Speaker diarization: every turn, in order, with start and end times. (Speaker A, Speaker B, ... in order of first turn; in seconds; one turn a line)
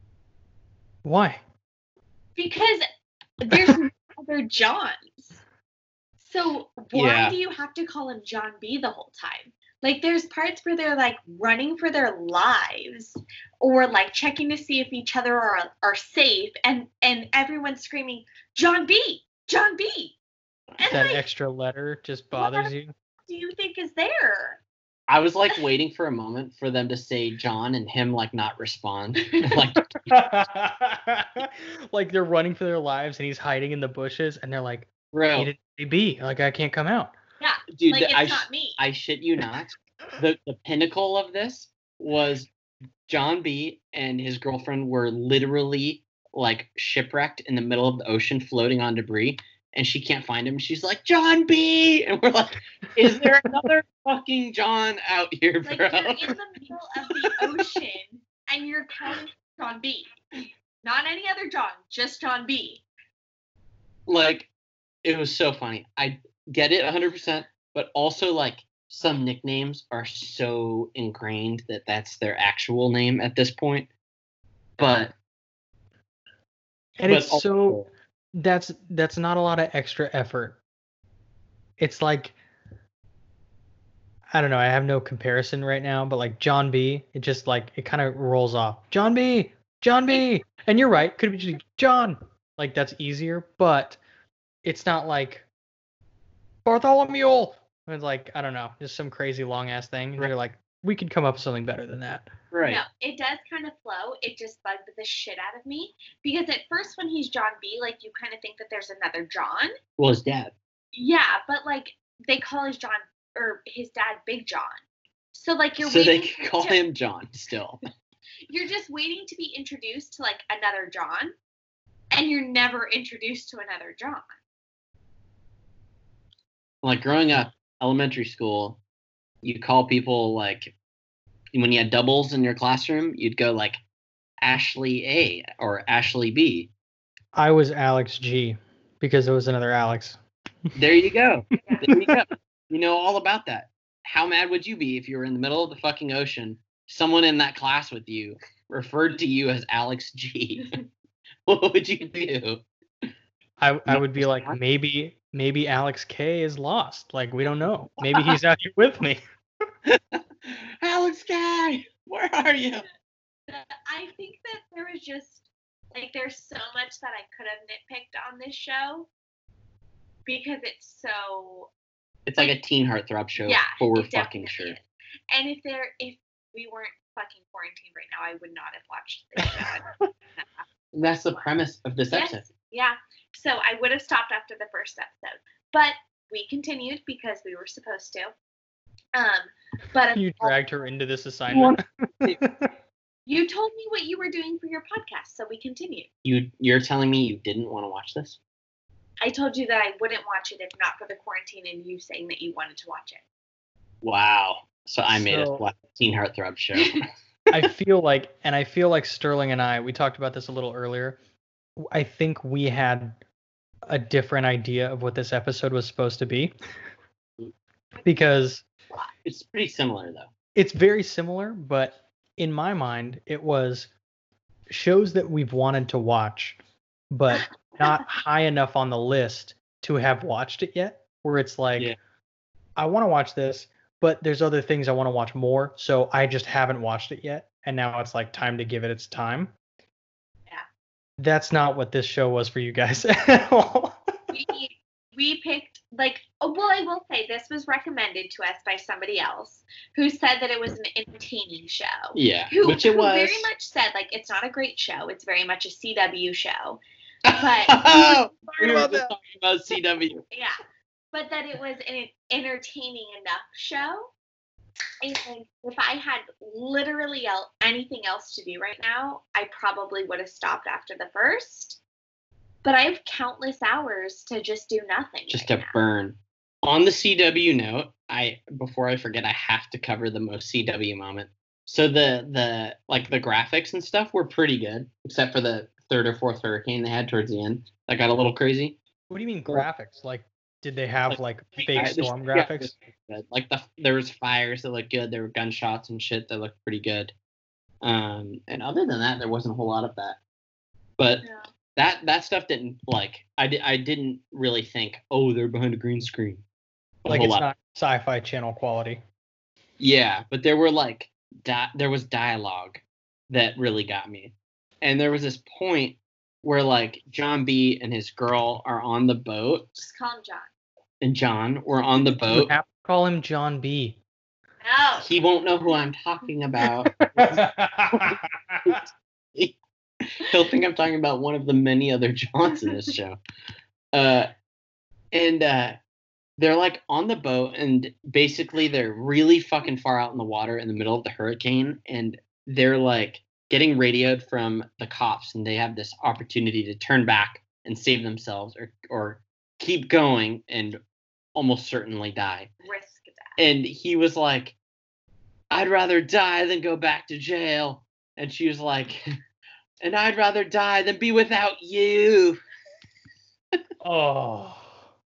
Speaker A: 1.1-1.4
Speaker B: 2.4-2.9
Speaker B: 3.4-5.4
Speaker B: 6.2-20.2
Speaker C: 6.9-7.3
Speaker B: 20.8-21.2
Speaker A: 20.9-22.9
Speaker B: 22.4-22.7
Speaker B: 23.3-24.6
Speaker C: 25.1-29.8
Speaker B: 29.3-29.6
Speaker A: 30.1-37.1
Speaker C: 35.1-35.5
Speaker B: 37.4-38.8
Speaker C: 37.8-42.5
Speaker C: 43.1-56.3
Speaker B: 55.6-60.1
Speaker C: 57.2-57.5
Speaker B: 60.8-62.9
Speaker C: 64.1-64.5
Speaker C: 65.0-73.9
Speaker C: 74.8-75.2
Speaker A: 77.0-77.8
Speaker C: 77.1-77.9
Speaker A: 78.3-80.6
Speaker A: 81.8-82.4
Speaker A: 84.3-94.0
Speaker A: 94.6-95.5
Speaker A: 96.7-102.3
Speaker C: 102.5-102.8
Speaker B: 102.6-109.7
Speaker C: 110.0-110.5
Speaker B: 110.9-114.8
Speaker B: 115.3-116.8
Speaker C: 115.8-117.8
Speaker B: 118.5-121.3
Speaker B: 122.1-124.3
Speaker C: 126.8-128.8
Speaker C: 129.4-130.8
Speaker C: 131.5-133.8
Speaker C: 134.4-136.7
Speaker A: 137.3-140.2
Speaker C: 140.8-150.8
Speaker A: 141.9-142.2
Speaker C: 151.5-152.6
Speaker A: 153.6-159.2
Speaker C: 153.9-154.6
Speaker C: 158.0-158.3
Speaker C: 159.9-162.8
Speaker B: 163.5-169.1
Speaker B: 170.3-171.7
Speaker C: 172.3-174.8
Speaker B: 173.4-180.6
Speaker C: 180.9-182.5
Speaker B: 182.1-188.3
Speaker B: 189.2-190.6
Speaker A: 190.1-192.7
Speaker C: 191.5-192.4
Speaker B: 193.3-196.1
Speaker C: 196.2-198.4
Speaker B: 199.2-203.2
Speaker C: 204.0-207.0
Speaker A: 205.1-205.6
Speaker A: 207.5-211.2
Speaker A: 211.8-213.2
Speaker A: 213.9-216.5
Speaker A: 218.0-218.7
Speaker C: 219.2-220.3
Speaker A: 220.6-223.9
Speaker A: 224.7-226.6
Speaker A: 227.1-231.9
Speaker A: 232.8-239.5
Speaker A: 241.2-244.0
Speaker B: 244.3-257.9
Speaker C: 252.1-253.5
Speaker C: 257.2-260.2
Speaker A: 257.8-259.1
Speaker B: 260.3-260.6
Speaker B: 261.1-264.1
Speaker B: 265.0-271.8
Speaker B: 272.6-275.7
Speaker C: 275.3-288.8
Speaker A: 289.1-292.7
Speaker C: 291.7-297.1
Speaker C: 297.8-300.2
Speaker C: 301.0-301.2
Speaker C: 301.8-306.4
Speaker C: 307.0-307.5
Speaker A: 307.1-309.0
Speaker C: 309.8-319.9
Speaker B: 319.8-320.5
Speaker C: 321.0-322.5
Speaker A: 322.3-324.0
Speaker B: 324.6-325.1
Speaker C: 325.0-329.6
Speaker A: 326.6-328.8
Speaker C: 330.2-333.2
Speaker C: 333.9-334.3
Speaker C: 335.1-335.8
Speaker C: 336.4-350.8
Speaker C: 351.4-352.5
Speaker B: 352.6-353.4
Speaker C: 353.4-354.6
Speaker C: 355.5-359.0
Speaker C: 359.8-362.4
Speaker A: 363.8-364.8